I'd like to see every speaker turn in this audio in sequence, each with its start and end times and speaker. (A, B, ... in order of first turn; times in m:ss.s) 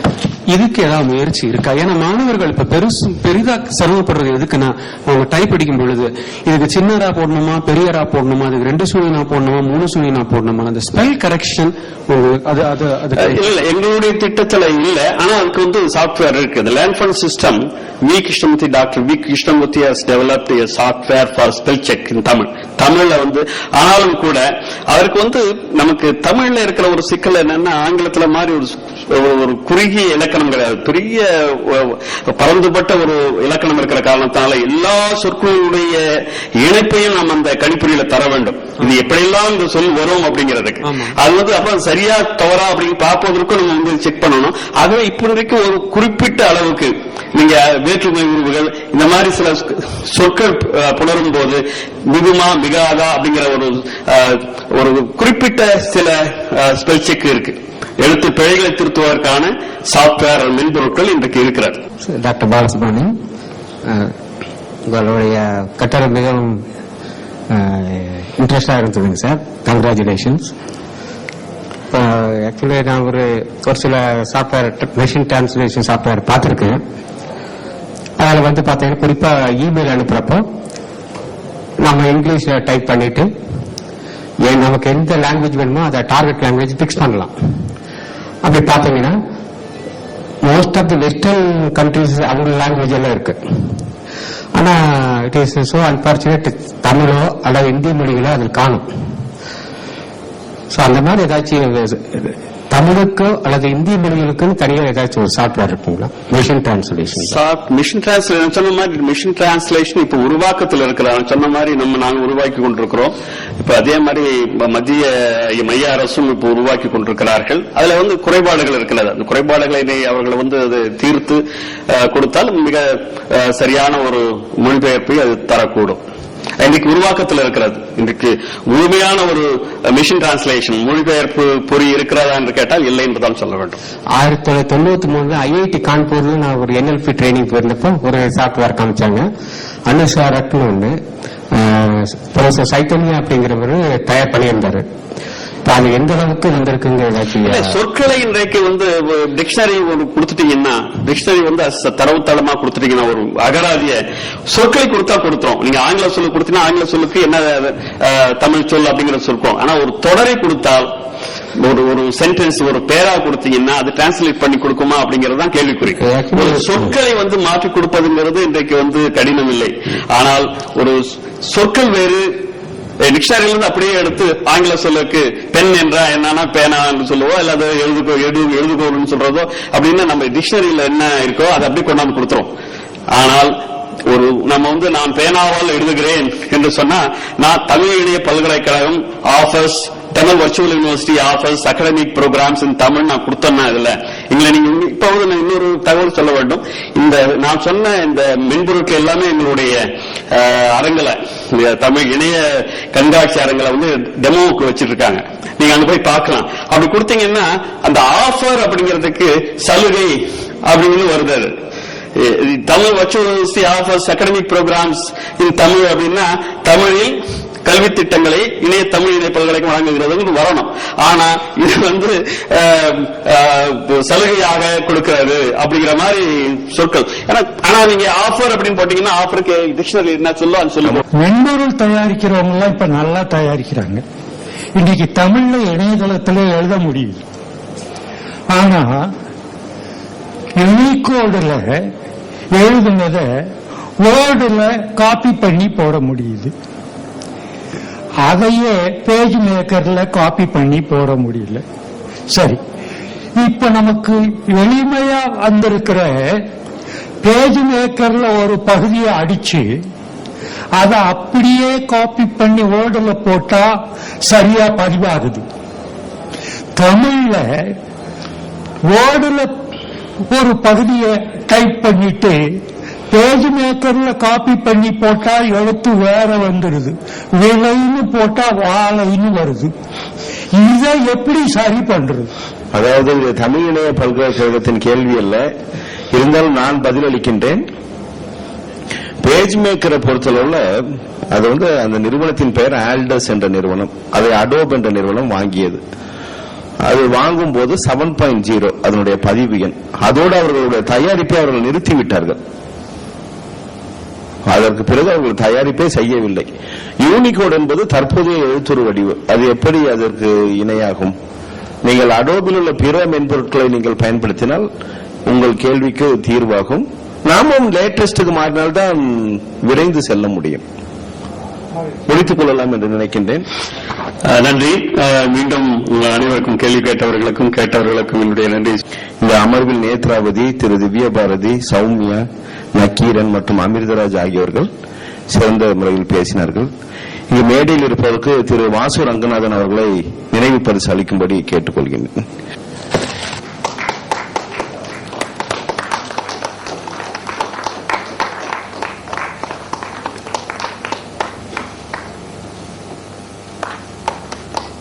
0:00.5-0:13.2 A
0:08.4-0:09.1 B
0:13.2-1:01.8 C
1:02.0-1:03.1 B
1:03.9-1:04.1 B
1:04.9-1:06.6 B
1:07.5-1:10.5 B
1:11.9-1:16.8 B
1:18.2-1:20.4 B
1:21.8-1:23.3 B
1:24.4-1:27.3 B
1:28.4-1:29.2 B
1:30.4-1:33.4 B
1:34.5-1:38.8 B
1:40.7-1:47.4 B
1:47.2-2:06.0 C
2:06.6-2:13.8 C
2:14.1-2:19.3 B
2:19.9-2:21.0 B
2:21.5-2:24.8 B
2:25.6-2:27.8 B
2:27.4-2:40.9 C
2:41.6-2:52.3 C
2:46.0-2:46.9 B
2:53.0-3:02.5 C
3:03.1-3:31.5 C
3:32.2-3:51.0 C
3:51.2-3:54.0 D
3:54.8-3:57.2 D
3:58.5-3:59.0 D
4:00.6-4:01.7 D
4:02.5-4:03.3 D
4:04.0-4:06.5 D
4:08.2-4:11.6 D
4:13.4-4:16.2 D
4:17.2-4:19.7 D
4:20.8-4:23.7 D
4:24.3-4:25.4 D
4:26.8-4:27.5 D
4:28.9-4:29.5 D
4:30.3-4:32.4 D
4:33.1-4:39.7 D
4:40.5-4:42.3 D
4:42.7-4:45.5 E
4:46.1-4:47.6 E
4:49.2-4:55.8 E
4:56.8-5:02.4 E
5:04.4-5:11.2 E
5:11.8-5:14.7 E
5:15.2-5:20.6 E
5:22.1-5:23.4 E
5:24.3-5:28.8 C
5:29.2-5:34.7 E
5:35.3-5:36.7 E
5:37.3-5:42.2 E